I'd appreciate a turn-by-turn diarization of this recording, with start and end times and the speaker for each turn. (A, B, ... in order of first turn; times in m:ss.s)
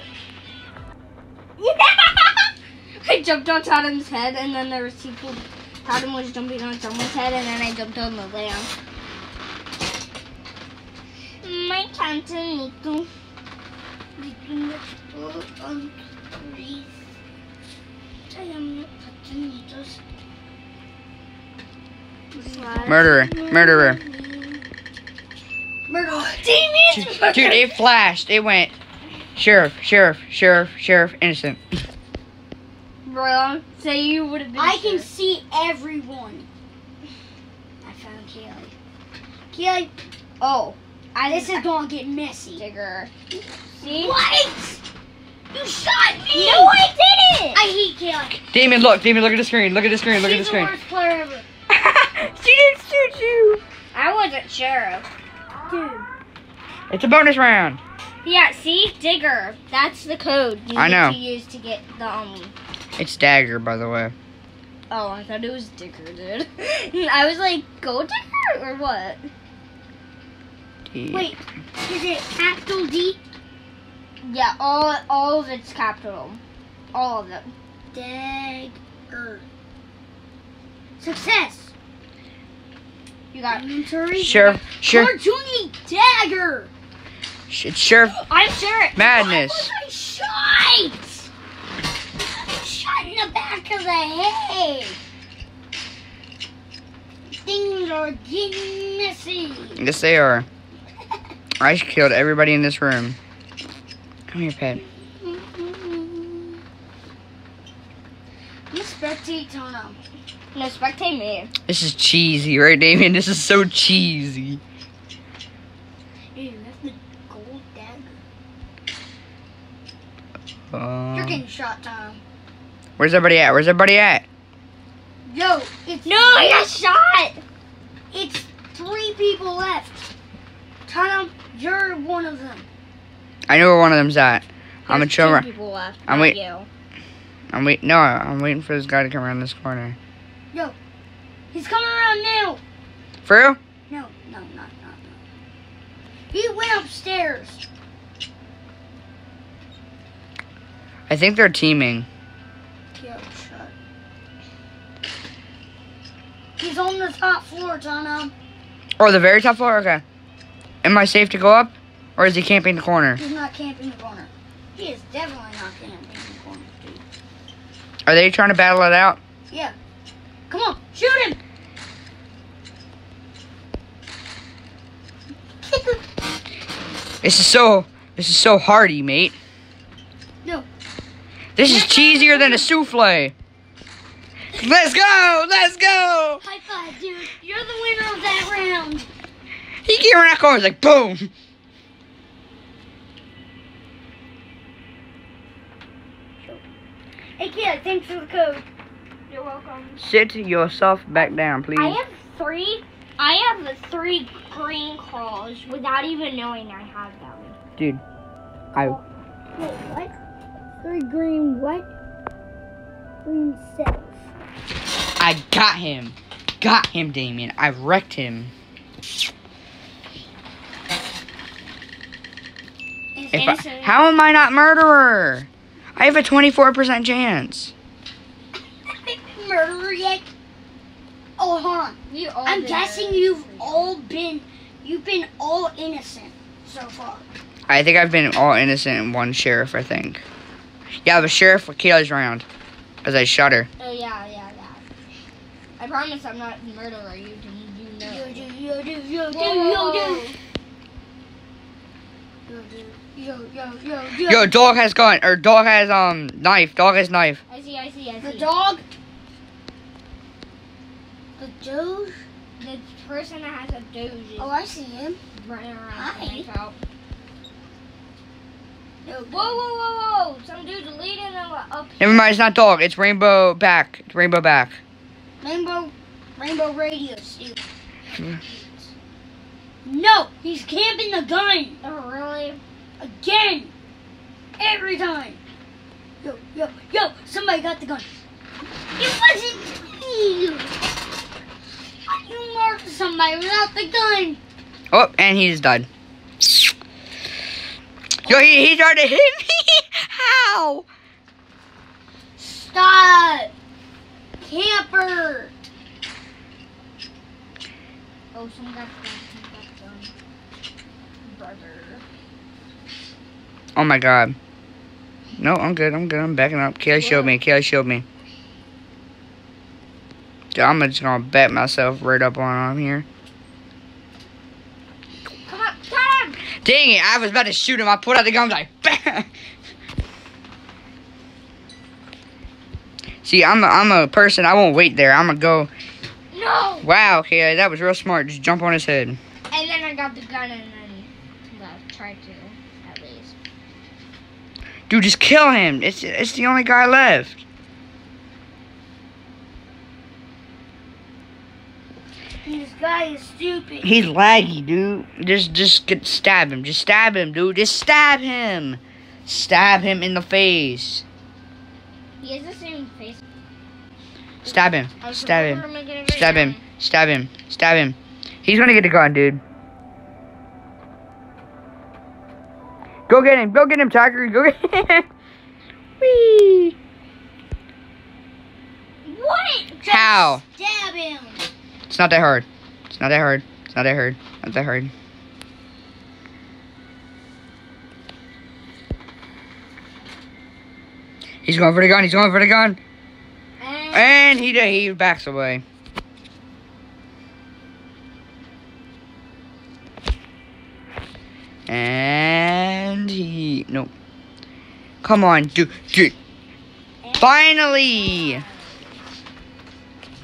0:01.6-0:08.7 A
0:11.4-0:13.1 A
0:14.2-0:17.0 B
0:18.3-0:20.0 B
0:22.3-0:24.6 B
0:22.3-0:23.3 A
0:22.8-0:24.0 C
0:25.9-0:27.8 B
0:27.0-0:28.8 C
0:29.4-0:31.6 C
0:33.0-0:35.1 A
0:34.6-0:36.5 B
0:37.8-0:38.7 B
0:39.5-0:39.9 B
0:40.4-0:41.6 A
0:41.3-0:42.6 B
0:42.6-0:43.1 A
0:43.3-0:44.8 B
0:43.8-0:44.2 A
0:45.5-0:46.8 B
0:46.3-0:47.6 A
0:47.5-0:48.4 B
0:48.4-0:50.8 C
0:50.1-0:51.4 B
0:51.7-0:53.6 C
0:53.9-0:55.0 A
0:55.6-0:56.1 B
0:56.9-0:57.8 C
0:58.2-1:02.5 A
1:00.8-1:01.2 C
1:03.0-1:04.1 C
1:04.9-1:09.2 A
1:10.9-1:11.3 C
1:11.1-1:13.2 B
1:14.2-1:16.4 A
1:16.9-1:17.5 A
1:17.9-1:19.4 B
1:21.0-1:21.7 B
1:23.3-1:23.6 A
1:23.5-1:26.7 B
1:24.2-1:25.1 C
1:24.3-1:24.6 A
1:27.5-1:28.2 C
1:28.1-1:31.3 B
1:29.0-1:29.7 C
1:32.2-1:35.0 B
1:37.3-1:39.8 B
1:39.8-1:40.5 C
1:41.6-1:43.2 C
1:44.3-1:44.8 C
1:45.2-1:46.6 B
1:48.7-1:50.0 B
1:50.5-1:51.5 A
1:51.7-1:54.6 C
1:56.3-1:58.2 B
2:00.7-2:01.4 C
2:01.1-2:02.2 B
2:03.0-2:04.2 C
2:05.2-2:06.6 B
2:06.0-2:07.4 A
2:08.1-2:10.1 B
2:10.9-2:12.6 B
2:13.5-2:15.5 C
2:14.9-2:16.7 A
2:16.1-2:16.4 C
2:17.5-2:20.0 C
2:21.5-2:22.6 B
2:23.2-2:23.6 C
2:23.9-2:25.2 B
2:26.3-2:27.6 B
2:31.1-2:32.1 C
2:32.9-2:33.7 B
2:36.6-2:38.3 B
2:39.0-2:40.0 C
2:40.8-2:43.2 C
2:43.2-2:47.0 B
2:48.1-2:49.2 C
2:50.5-2:51.4 B
2:55.7-2:56.0 B
2:57.2-2:59.4 C
3:01.6-3:03.3 C
3:01.6-3:02.7 B
3:04.5-3:06.4 C
3:06.4-3:09.1 B
3:09.8-3:11.3 C
3:17.4-3:18.6 B
3:19.3-3:20.0 A
3:20.0-3:22.0 C
3:21.8-3:27.6 A
3:27.8-3:28.0 C
3:28.7-3:29.0 B
3:29.6-3:30.1 B
3:30.8-3:31.9 B
3:33.2-3:34.2 B
3:35.2-3:38.5 C
3:43.1-3:43.6 B
3:43.3-3:44.0 A
3:43.3-3:47.7 C
3:48.9-3:50.3 B
3:51.4-3:57.2 B
3:52.1-3:53.9 A
3:57.7-4:00.2 C
4:01.0-4:02.4 C
4:03.0-4:03.7 C
4:03.8-4:04.8 A
4:05.8-4:08.5 A
4:08.0-4:10.3 B
4:09.3-4:10.4 A
4:12.5-4:14.5 B
4:14.2-4:17.4 C
4:17.5-4:18.5 A
4:18.2-4:18.8 B
4:21.4-4:22.2 B
4:22.6-4:24.5 A
4:24.4-4:25.2 B
4:25.3-4:26.8 A
4:25.9-4:26.5 B
4:29.0-4:29.6 B
4:29.3-4:32.3 A
4:32.0-4:34.8 C
4:35.4-4:37.6 B
4:39.8-4:41.8 B
4:41.8-4:42.6 A
4:43.0-4:43.7 B
4:44.6-4:45.4 B
4:46.2-4:48.1 B
4:49.0-4:50.7 B
4:52.1-4:54.4 B
4:54.9-4:55.9 C
4:56.4-4:56.7 C
4:58.2-5:00.8 C
4:58.3-4:58.7 B
5:02.4-5:03.5 B
5:04.4-5:05.5 B
5:08.3-5:10.1 A
5:11.2-5:12.0 A
5:13.7-5:14.4 C
5:15.4-5:18.0 C
5:16.9-5:17.4 A
5:20.5-5:23.0 C
5:25.5-5:26.4 A
5:26.6-5:29.3 C
5:33.2-5:35.7 C
5:36.3-5:36.9 A
5:36.8-5:39.2 C
5:39.5-5:43.3 A
5:44.9-5:47.4 C
5:52.4-5:53.9 B
5:53.8-6:01.0 C
6:02.2-6:03.2 A
6:04.4-6:09.4 C
6:05.0-6:06.6 A
6:13.1-6:15.1 C
6:16.0-6:16.8 C
6:19.0-6:19.8 A
6:19.8-6:21.4 B
6:19.9-6:20.4 C
6:21.9-6:24.9 C
6:31.4-6:32.8 C
6:33.6-6:34.2 A
6:33.9-6:35.6 C
6:41.7-6:43.9 C
6:45.0-6:46.1 C
6:47.0-6:48.9 A
6:47.2-6:48.4 C